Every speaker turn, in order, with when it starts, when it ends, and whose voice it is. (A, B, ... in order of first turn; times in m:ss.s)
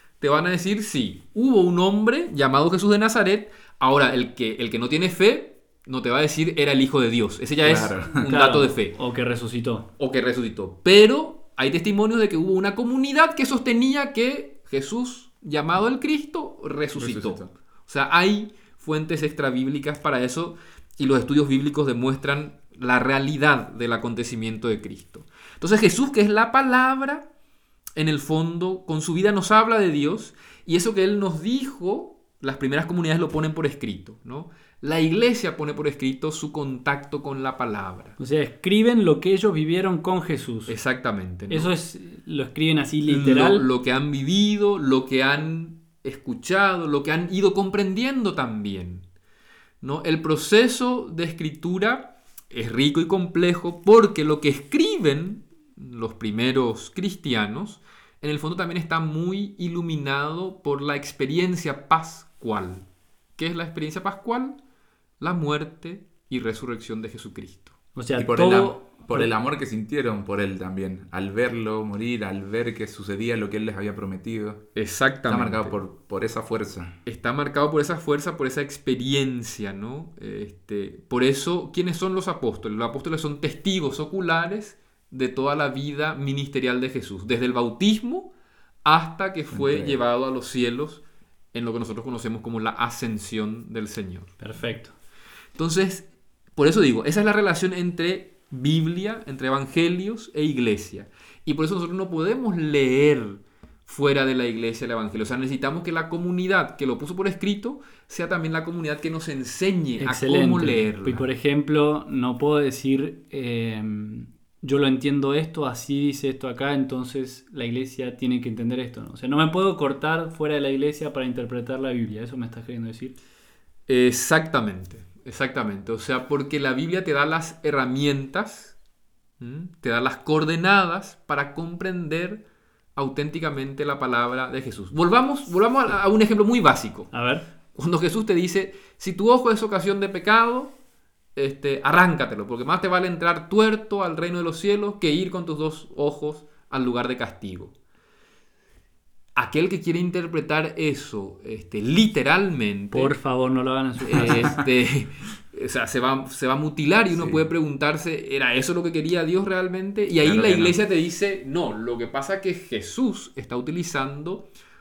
0:00.2-0:09.0 A
0:07.6-0:08.4 B
0:08.2-0:09.9 C
0:10.0-0:27.3 A
0:17.0-0:17.5 B
0:28.0-0:38.2 A
0:38.2-0:40.7 C
0:40.7-0:41.7 A
0:41.5-0:43.6 C
0:43.1-0:49.0 A
0:49.8-1:02.8 A
1:03.4-1:04.6 A
1:05.2-1:07.8 A
1:07.9-1:09.3 C
1:08.1-1:14.6 B
1:14.8-1:15.8 A
1:15.2-1:16.9 B
1:17.0-1:28.3 A
1:28.8-1:31.0 A
1:29.5-1:30.0 B
1:31.5-1:34.4 A
1:34.4-1:34.9 C
1:35.6-1:51.2 A
1:50.0-2:03.1 C
2:03.9-2:08.8 A
2:09.4-2:12.4 A
2:13.0-2:17.1 A
2:17.1-2:17.4 C
2:17.7-2:20.7 A
2:21.4-2:27.7 A
2:29.3-2:33.2 A
2:32.9-2:34.6 C
2:34.1-2:44.5 A
2:34.2-2:34.6 B
2:37.1-2:37.4 B
2:40.2-2:40.8 B